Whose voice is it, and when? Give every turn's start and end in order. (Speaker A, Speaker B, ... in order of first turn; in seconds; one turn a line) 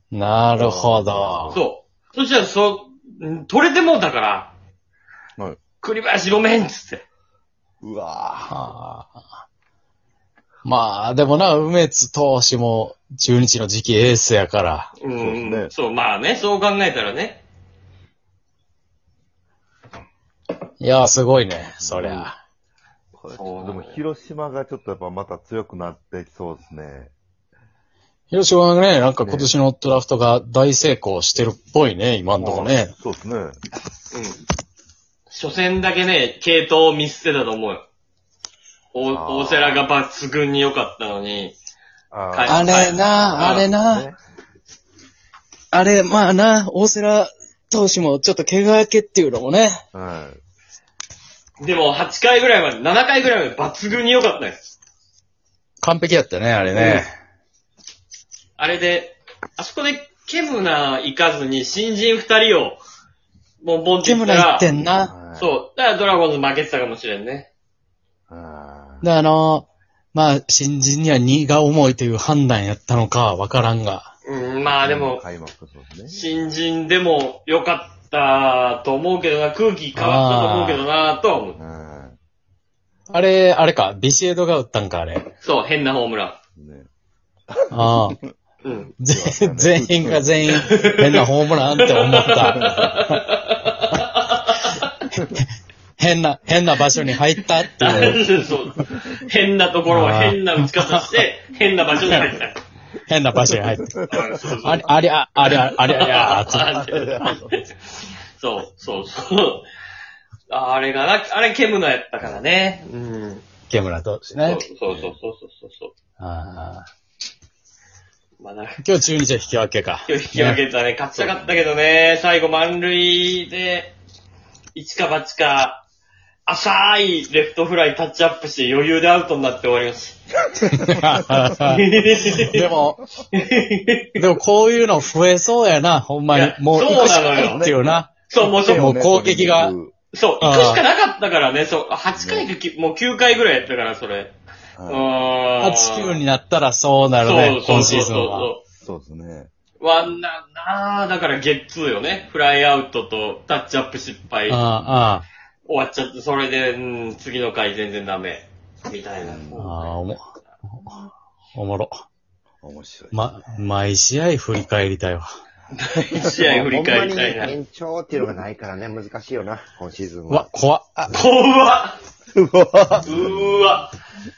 Speaker A: 0.1-1.6
Speaker B: 0.6-1.6
Speaker C: 1.5-4.5
Speaker C: 5.8-7.0
Speaker B: 7.8-8.7
Speaker A: 8.5-9.2
Speaker A: 10.7-14.9
Speaker C: 15.0-17.4
Speaker B: 15.2-15.7
Speaker A: 20.8-22.4
Speaker B: 21.8-22.3
Speaker B: 23.1-27.1
Speaker C: 23.3-24.0
Speaker A: 28.3-32.9
Speaker B: 29.2-29.5
Speaker B: 32.4-33.6
Speaker C: 34.1-34.4
Speaker C: 35.3-37.8
Speaker C: 38.9-41.5
Speaker B: 39.1-39.9
Speaker B: 42.1-44.2
Speaker C: 42.3-43.7
Speaker A: 42.5-44.1
Speaker A: 45.7-49.8
Speaker B: 49.9-50.4
Speaker C: 51.6-54.6
Speaker A: 55.8-57.1
Speaker C: 56.7-57.0
Speaker C: 58.6-62.8
Speaker C: 63.6-64.7
Speaker A: 64.0-65.1
Speaker B: 65.0-65.5
Speaker C: 65.4-67.5
Speaker B: 68.3-69.1
Speaker A: 69.0-74.1
Speaker C: 74.3-75.2
Speaker B: 74.7-76.2
Speaker C: 76.1-81.6
Speaker A: 80.0-80.8
Speaker B: 81.6-82.2
Speaker A: 83.1-85.3
Speaker C: 85.4-86.4
Speaker B: 86.6-86.9
Speaker B: 87.5-88.1
Speaker A: 87.7-88.2
Speaker C: 88.6-88.9
Speaker B: 88.9-90.5
Speaker A: 89.0-93.2
Speaker C: 90.5-94.9
Speaker B: 92.6-92.9
Speaker A: 96.0-98.2
Speaker C: 97.8-102.6
Speaker A: 99.9-101.1
Speaker A: 103.1-104.0
Speaker B: 103.5-104.2
Speaker C: 104.1-107.7
Speaker A: 104.6-106.7
Speaker B: 106.7-107.5
Speaker C: 108.4-109.7
Speaker C: 110.5-113.4
Speaker A: 113.7-114.6
Speaker C: 114.4-115.9
Speaker B: 114.9-115.2
Speaker A: 116.2-116.9
Speaker C: 118.4-118.8
Speaker A: 118.8-120.6
Speaker C: 120.1-123.9
Speaker B: 121.2-121.7
Speaker C: 124.8-125.8
Speaker C: 126.5-130.2
Speaker A: 130.7-131.8
Speaker B: 130.9-131.4
Speaker C: 131.6-132.7
Speaker A: 132.4-133.0
Speaker C: 133.3-134.1
Speaker A: 134.2-138.1
Speaker C: 136.3-137.7
Speaker B: 137.3-139.9
Speaker C: 138.3-138.9
Speaker A: 138.7-139.7
Speaker C: 140.1-144.3
Speaker A: 140.4-140.8
Speaker B: 142.2-142.5
Speaker B: 144.8-145.1
Speaker C: 144.9-146.2
Speaker A: 145.6-148.5
Speaker C: 147.2-148.6
Speaker B: 148.8-149.5
Speaker C: 149.8-154.7
Speaker A: 154.5-155.3
Speaker C: 155.7-160.2
Speaker B: 159.2-159.7
Speaker A: 159.6-160.2
Speaker A: 161.6-161.9
Speaker B: 162.6-163.2
Speaker A: 163.1-165.3
Speaker C: 165.8-167.6
Speaker D: 166.4-170.5
Speaker A: 170.3-170.9
Speaker C: 171.1-172.0
Speaker B: 172.3-173.6
Speaker C: 173.1-173.9